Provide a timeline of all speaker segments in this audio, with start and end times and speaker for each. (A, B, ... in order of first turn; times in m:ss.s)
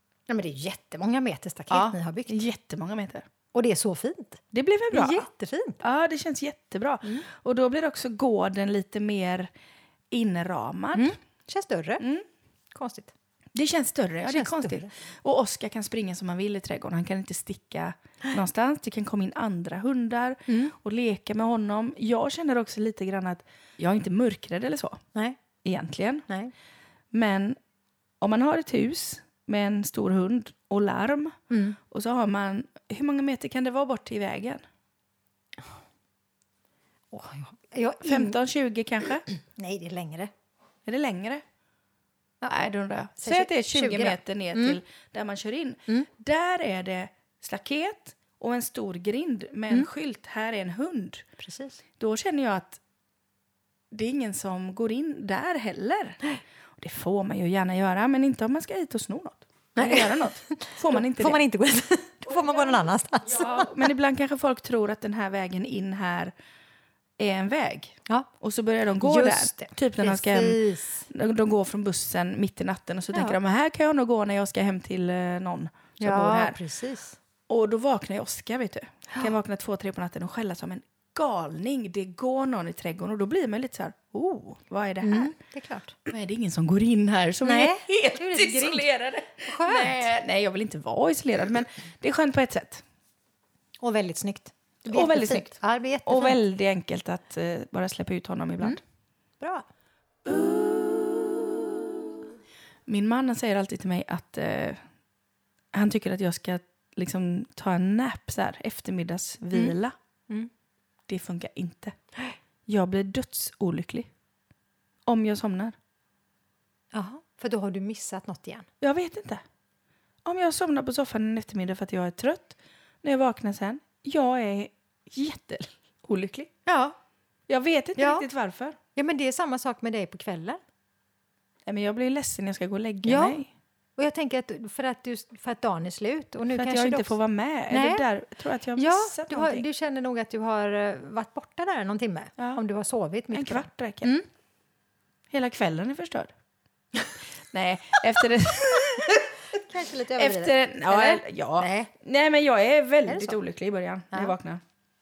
0:00.3-0:02.4 A
0:01.7-0:03.3 B
0:03.5-0:05.8 A
0:04.5-0:05.3 B
0:05.8-0:09.5 B
0:10.1-0:11.1 B
0:10.9-0:12.0 A
0:12.0-0:12.2 B
0:12.7-0:13.1 A
0:13.5-0:25.0 B
0:14.2-0:14.9 A
0:20.5-0:20.7 A
0:25.6-0:26.2 B
0:27.1-0:27.6 B
0:28.2-0:31.3 B
0:31.5-0:31.8 A
0:31.9-0:34.6 B
0:37.1-0:38.4 A
0:38.0-0:39.2 B
0:39.3-0:40.3 A
0:40.8-0:41.4 B
0:42.4-0:44.8 A
0:42.5-0:51.2 B
0:51.4-0:51.8 A
0:52.0-0:52.8 B
0:53.9-0:56.2 B
0:56.8-1:01.4 B
0:59.8-1:03.9 A
1:02.3-1:06.3 B
1:07.2-1:16.6 B
1:09.0-1:11.1 A
1:16.0-1:17.2 A
1:17.5-1:25.3 B
1:25.0-1:26.0 A
1:26.0-1:32.8 B
1:27.4-1:28.9 A
1:29.4-1:30.1 A
1:33.8-1:36.4 A
1:34.9-1:35.5 B
1:36.0-1:38.8 B
1:39.4-1:39.6 A
1:40.2-1:42.0 B
1:42.9-1:44.8 B
1:45.7-1:49.9 B
1:51.1-1:52.0 B
1:52.7-1:54.1 B
1:55.0-1:55.8 B
1:56.9-1:58.7 A
1:58.8-1:59.4 B
2:00.2-2:06.5 B
2:06.6-2:07.0 A
2:07.5-2:08.8 B
2:08.0-2:08.2 A
2:08.9-2:10.6 A
2:11.6-2:13.5 B
2:13.0-2:13.4 A
2:14.0-2:17.1 A
2:16.5-2:19.6 B
2:17.7-2:18.0 A
2:18.8-2:24.2 A
2:23.3-2:24.2 B
2:25.3-2:26.3 B
2:27.4-2:29.2 B
2:28.7-2:31.9 A
2:30.2-2:34.6 B
2:33.1-2:33.4 A